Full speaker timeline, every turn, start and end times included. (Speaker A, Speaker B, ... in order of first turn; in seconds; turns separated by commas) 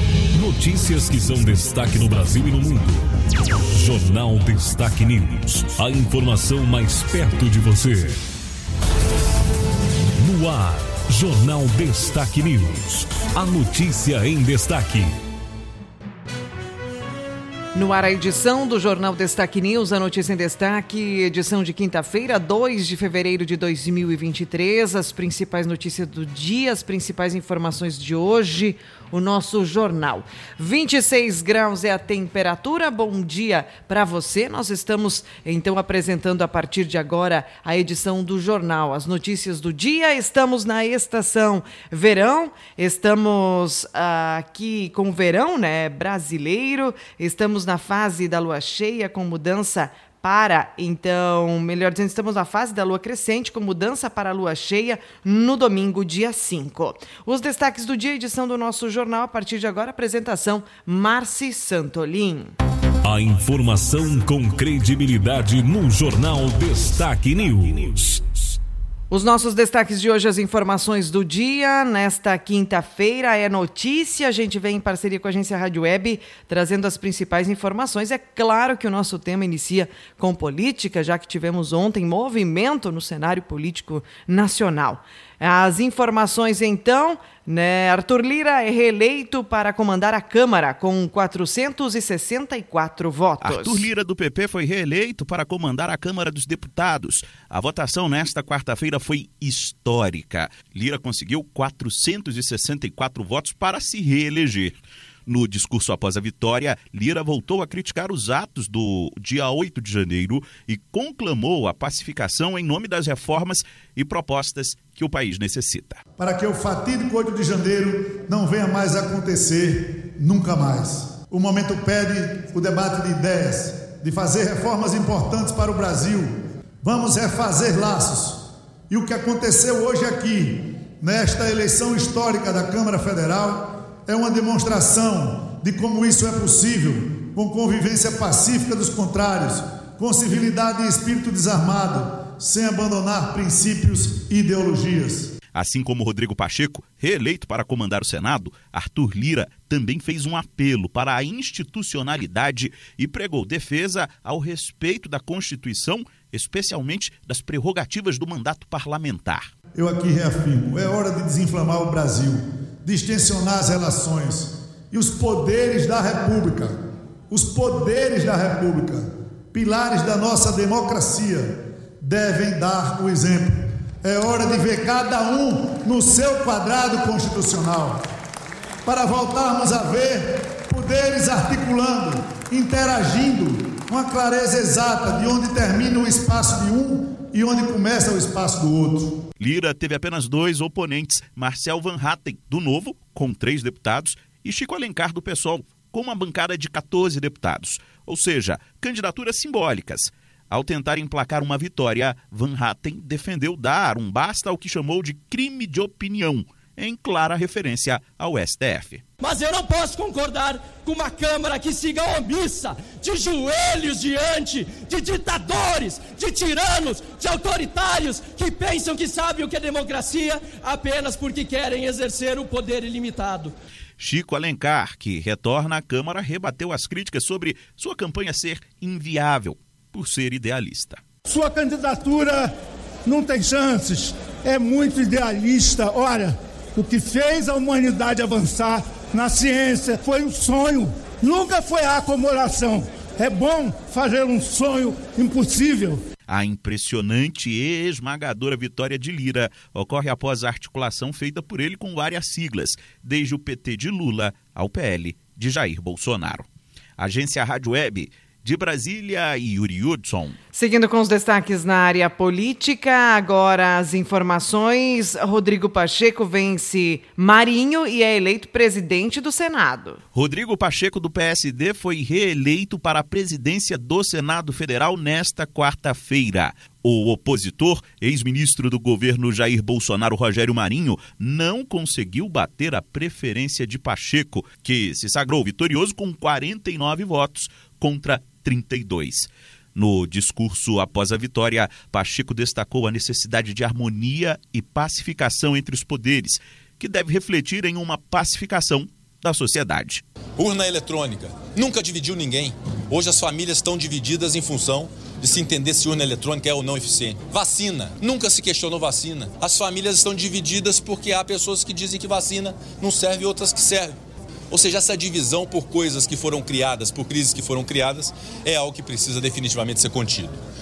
Speaker A: 0.3-3.0, Speaker A: 3.7-8.2, Speaker A: 10.2-15.1, Speaker B: 17.7-62.5, Speaker A: 63.0-68.2, Speaker B: 69.1-93.9, Speaker C: 93.4-104.8, Speaker C: 105.3-116.0, Speaker D: 116.2-145.3, Speaker C: 145.5-159.5, Speaker D: 159.7-166.7, Speaker D: 167.3-178.0, Speaker D: 178.8-189.2, Speaker C: 189.4-209.0, Speaker E: 209.2-223.5, Speaker C: 224.0-231.0, Speaker F: 231.2-232.5, Speaker F: 233.1-246.0, Speaker C: 246.3-256.4, Speaker C: 257.0-260.4, Speaker B: 260.5-270.0, Speaker C: 270.1-300.0, Speaker G: 300.4-313.9, Speaker G: 314.5-320.4